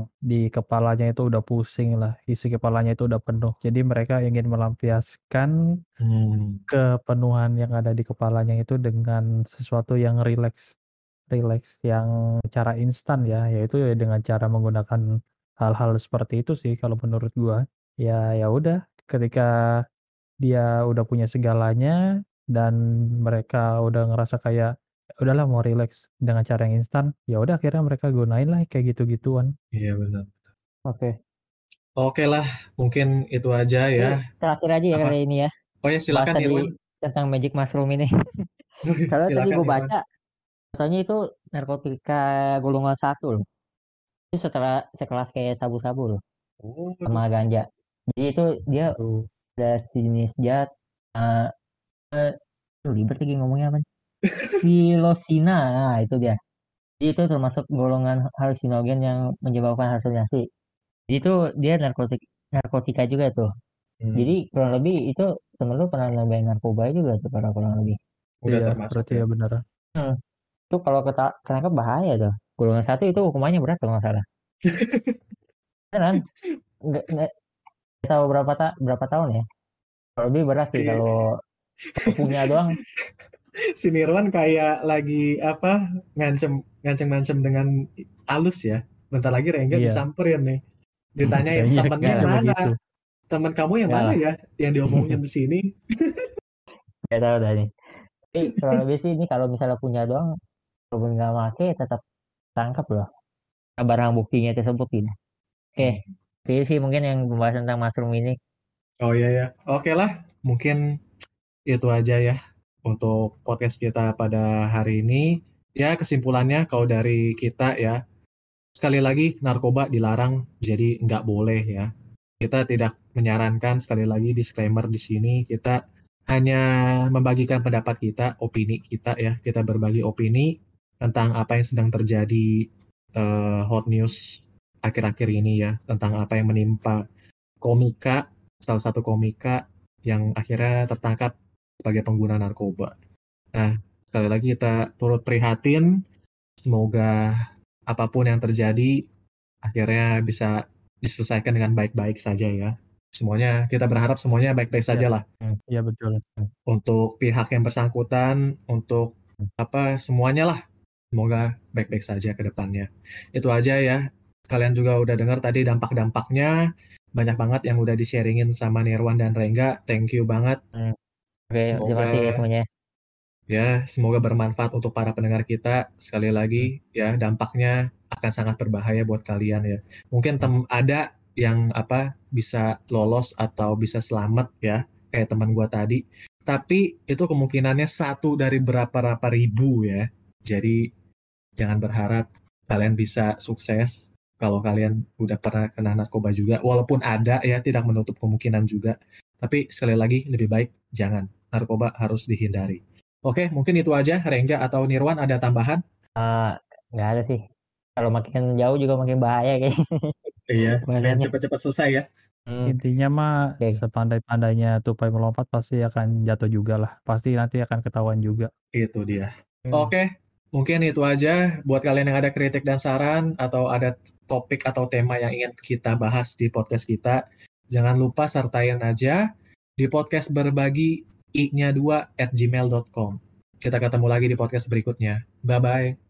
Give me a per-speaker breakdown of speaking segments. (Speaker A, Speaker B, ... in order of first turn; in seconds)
Speaker A: 0.3-5.5, 6.7-10.6, 11.3-15.0, 15.6-19.5, 20.4-21.9, 22.5-24.7, 25.2-29.5, 49.0-49.2, 68.5-69.6, 89.7-90.0, 91.5-92.8, 155.7-156.2, 212.7-218.5
Speaker B: 6.0-6.6, 29.7-30.3, 32.0-34.2, 35.8-36.7, 38.9-39.9, 46.6-47.2, 64.0-64.3, 68.4-69.2, 74.6-75.2, 80.7-81.0, 82.0-83.1, 83.8-87.7, 88.3-90.6, 91.2-92.7, 93.3-96.3, 105.8-106.0, 109.0-110.8, 111.7-118.0, 118.8-121.9, 122.4-125.8, 126.3-137.0, 137.6-142.9, 143.5-145.9, 146.6-147.3, 147.9-148.9, 149.6-155.2, 156.7-160.6, 161.1-166.6, 167.1-170.6, 171.7-172.4, 173.5-190.8, 191.6-205.8, 210.5-212.1, 218.7-227.2, 227.7-229.2, 229.8-235.9
Speaker C: 34.0-35.5, 36.1-38.1, 39.1-40.0, 40.8-43.4, 44.3-46.2, 47.1-48.9, 49.6-50.7, 51.2-51.5, 52.8-53.8, 54.5-56.4, 57.0-60.4, 61.1-63.5, 64.1-68.0, 70.7-74.2, 75.9-76.2, 76.9-77.3, 78.0-79.4, 80.2-81.3, 82.0-82.8, 92.0-92.3, 93.9-94.2, 97.1-97.7, 98.3-100.3, 100.9-102.0, 102.6-103.1, 103.8-105.1, 105.8-108.3, 171.5-172.6, 206.2-207.4, 208.0-210.3, 210.8-211.3, 212.5-212.8